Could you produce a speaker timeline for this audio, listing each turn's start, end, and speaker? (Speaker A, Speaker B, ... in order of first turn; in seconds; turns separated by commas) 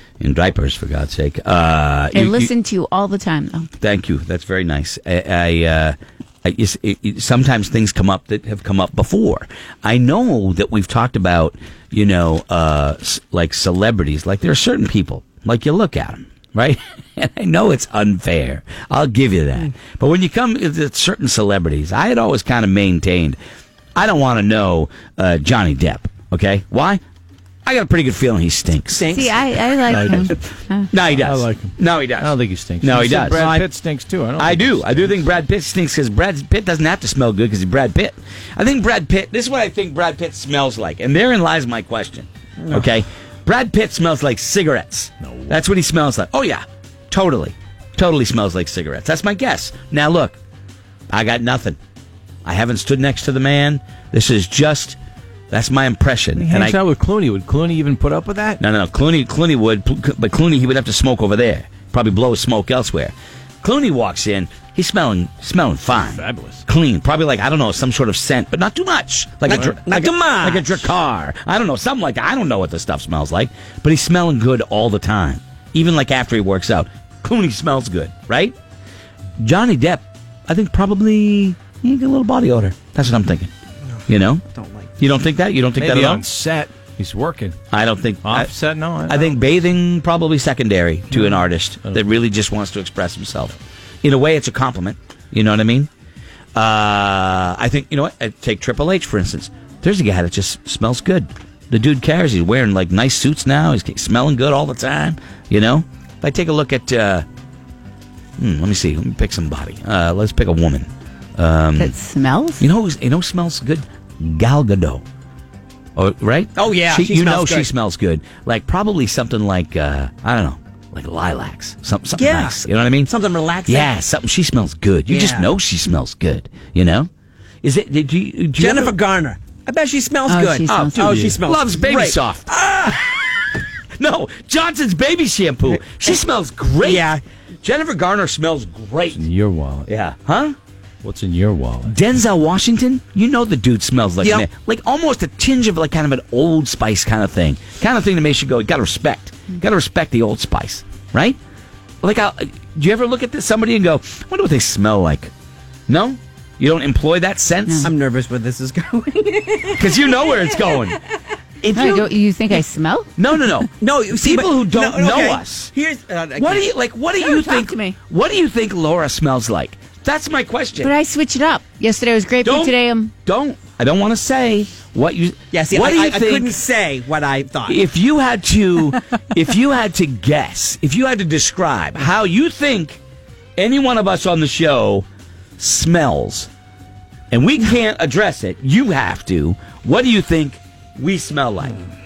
Speaker A: 0.2-2.5, Speaker B: 2.1-3.7, Speaker A: 3.8-23.4, Speaker A: 24.0-27.0, Speaker A: 27.6-29.2, Speaker C: 28.9-29.4, Speaker B: 29.1-30.9, Speaker D: 29.9-30.3, Speaker A: 30.9-33.7, Speaker D: 30.9-35.1, Speaker A: 34.4-50.4, Speaker A: 51.1-51.8, Speaker A: 52.5-55.0, Speaker A: 55.5-56.8, Speaker D: 56.4-58.6, Speaker A: 58.6-78.5, Speaker D: 66.0-66.6, Speaker C: 69.5-70.9, Speaker A: 79.4-83.5, Speaker A: 84.1-84.4, Speaker C: 84.5-84.9, Speaker A: 85.0-86.2, Speaker D: 85.8-87.6, Speaker A: 87.7-88.5, Speaker D: 88.2-89.3, Speaker A: 89.1-95.9, Speaker D: 91.1-92.0, Speaker A: 96.6-107.2, Speaker A: 108.4-111.9, Speaker B: 111.8-112.7, Speaker A: 112.6-115.0, Speaker A: 116.0-123.1, Speaker C: 116.6-117.7, Speaker C: 122.2-123.9, Speaker A: 123.7-127.1, Speaker C: 125.1-125.5, Speaker A: 127.6-129.0, Speaker C: 128.6-133.0, Speaker B: 130.3-131.1, Speaker A: 130.7-133.2, Speaker D: 131.0-131.4, Speaker A: 134.0-137.1, Speaker C: 135.8-136.2, Speaker C: 136.8-137.2, Speaker A: 137.6-139.2, Speaker D: 139.2-139.9, Speaker A: 139.9-140.6, Speaker D: 141.0-141.9, Speaker A: 141.8-151.4, Speaker A: 152.0-155.3, Speaker A: 155.9-157.9, Speaker C: 157.8-160.8, Speaker A: 159.8-161.0, Speaker A: 161.6-162.6, Speaker B: 161.8-163.5, Speaker A: 163.2-165.7, Speaker C: 163.8-166.7, Speaker A: 166.4-170.9, Speaker B: 167.2-168.0, Speaker B: 170.8-173.1, Speaker A: 172.4-176.6, Speaker C: 175.5-177.8, Speaker A: 177.7-183.0, Speaker A: 183.6-185.1, Speaker A: 185.6-186.5, Speaker A: 187.3-191.8